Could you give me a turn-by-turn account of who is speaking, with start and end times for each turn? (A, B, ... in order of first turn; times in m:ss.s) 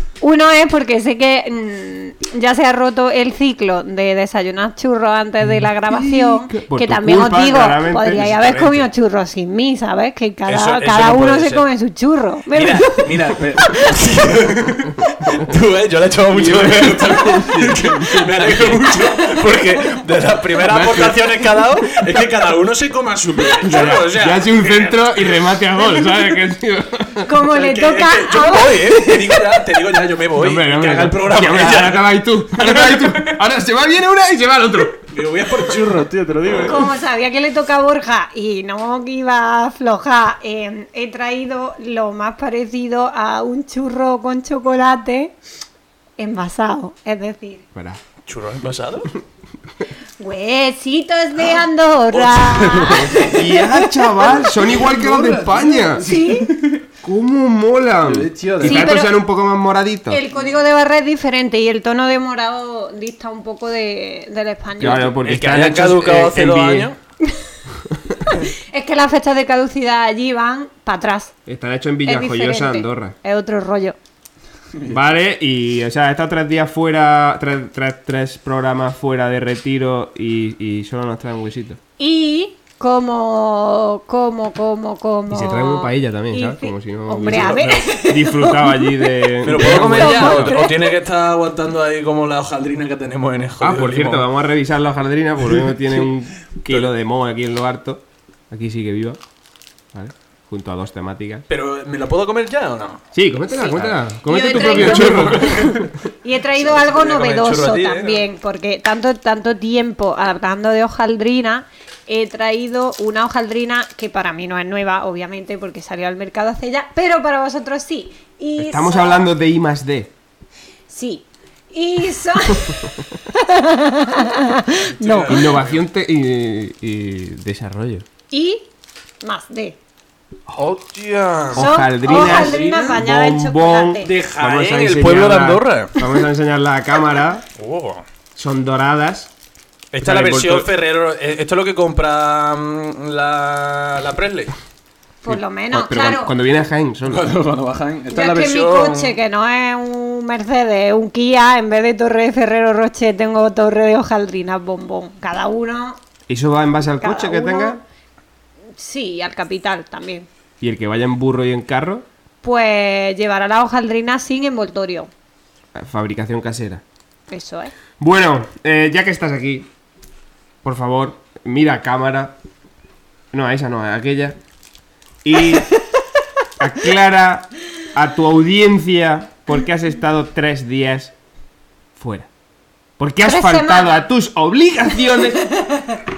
0:00.2-0:13.2 A
0:05.4-0:08.4 B
0:08.1-0:08.9 C
0:10.5-0:11.7 C
0:12.5-0:26.2 C
0:16.3-0:19.2 B
0:20.7-0:22.2 B
0:23.6-0:27.3 B
0:27.2-0:29.6 A
0:27.4-0:33.4 C
0:30.4-0:35.1 B
0:34.9-0:36.9 C
0:36.6-0:45.4 A
0:46.2-0:47.6 A
0:47.7-0:48.0 B
0:48.3-0:49.1 C
0:50.2-0:53.9 A
0:52.1-0:56.8 C
0:52.9-0:56.1 B
0:56.0-0:56.5 A
0:57.0-1:00.2 B
0:58.0-0:59.0 C
0:58.6-0:59.2 A
1:00.1-1:05.1 A
1:04.8-1:06.9 B
1:04.8-1:07.0 C
1:08.3-1:11.3 A
1:11.5-1:13.2 B
1:12.0-1:14.0 A
1:14.9-1:21.8 B
1:22.0-1:30.9 A
1:25.3-1:30.6 B
1:27.3-1:27.8 C
1:29.4-1:34.3 C
1:33.6-1:39.2 B
1:35.4-1:36.1 C
1:39.9-1:41.5 B
1:41.5-1:43.0 C
1:43.2-1:45.9 B
1:43.5-1:59.3 A
1:43.7-1:45.9 C
1:46.5-1:48.3 C
1:58.6-2:00.1 B
2:00.9-2:05.4 A
2:02.5-2:02.9 B
2:04.7-2:05.9 C
2:05.3-2:08.1 B
2:08.3-2:08.7 A
2:09.2-2:09.8 A
2:10.6-2:13.0 C
2:11.5-2:17.4 B
2:11.6-2:14.1 A
2:14.0-2:16.1 C
2:17.6-2:18.0 C
2:18.4-2:19.3 B
2:19.9-2:24.5 C
2:20.0-2:20.7 B
2:25.2-2:26.4 A
2:25.3-2:27.3 B
2:27.0-2:29.2 C
2:28.1-2:36.0 A
2:36.3-2:37.8 B
2:37.0-2:37.8 A
2:38.8-2:40.3 A
2:40.6-2:42.1 B
2:42.4-2:45.1 A
2:45.8-2:46.8 B
2:47.3-2:47.7 A
2:48.0-2:49.7 B
2:50.6-2:52.4 B
2:53.3-2:54.4 B
2:55.2-2:55.7 B
2:56.6-3:01.1 B
3:02.0-3:02.3 B
3:03.0-3:05.5 B
3:03.2-3:04.0 A
3:05.4-3:06.0 A